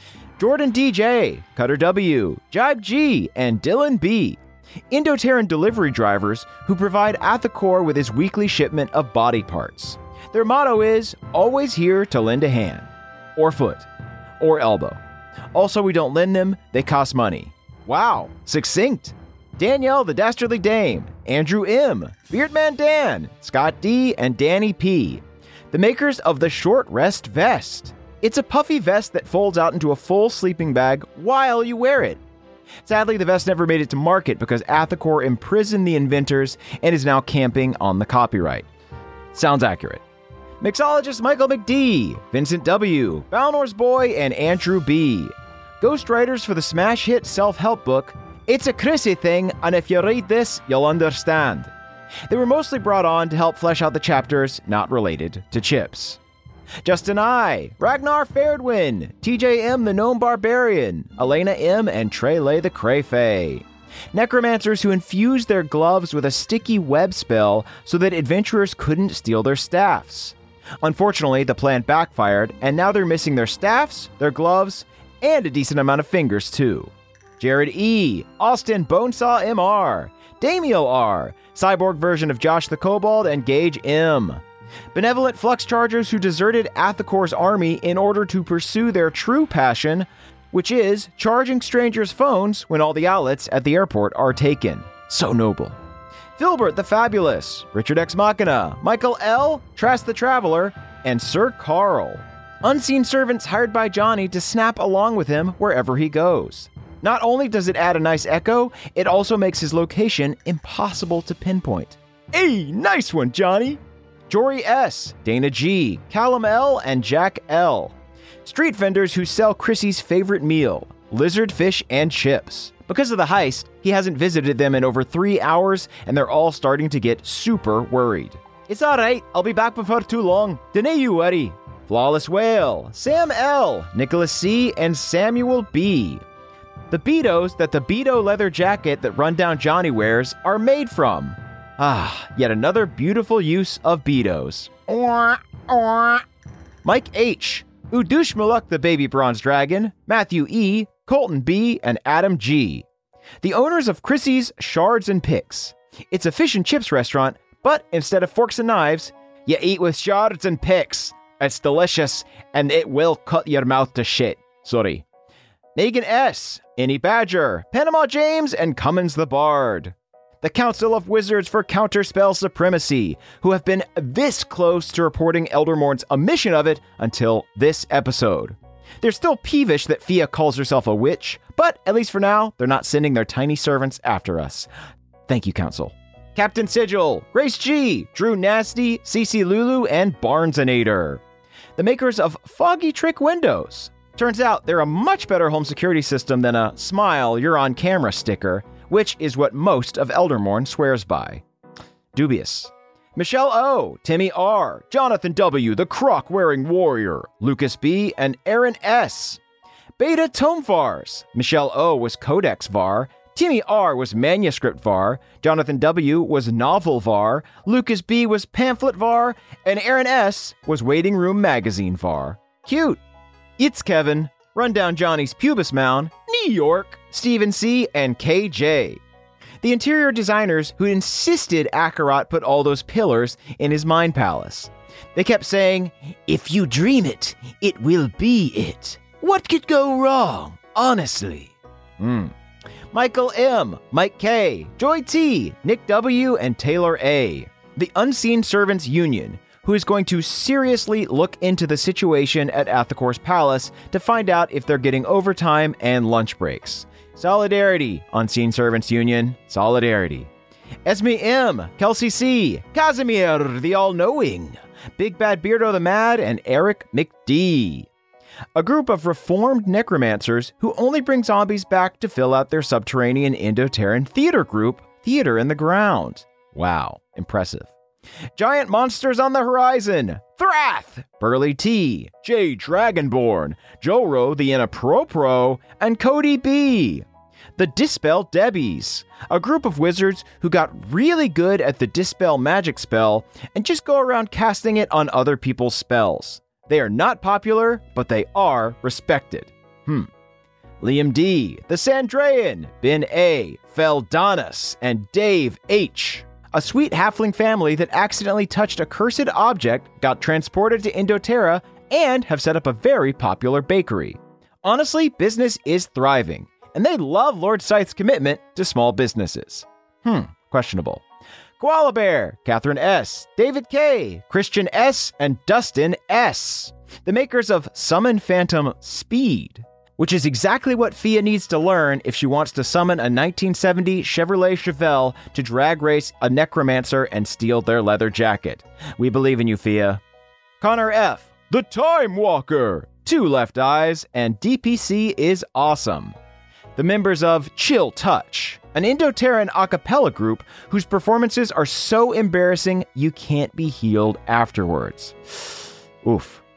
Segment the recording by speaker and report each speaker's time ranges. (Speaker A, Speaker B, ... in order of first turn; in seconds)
Speaker A: 0.4-13.9, 14.4-15.0, 15.5-32.2, 32.8-38.7, 39.3-40.0, 40.6-51.7, 52.3-56.2, 56.8-84.4, 84.9-95.8, 96.4-136.2, 136.9-146.2, 146.8-152.8, 153.4-165.0, 165.7-184.7, 185.3-191.2, 191.8-201.4, 202.1-209.4, 210.0-223.0, 223.6-229.0, 229.6-242.3, 242.9-260.3, 260.8-267.9, 268.5-277.7, 278.3-287.0, 287.6-300.1, 300.8-321.0, 321.6-340.0, 340.6-346.1, 346.8-356.4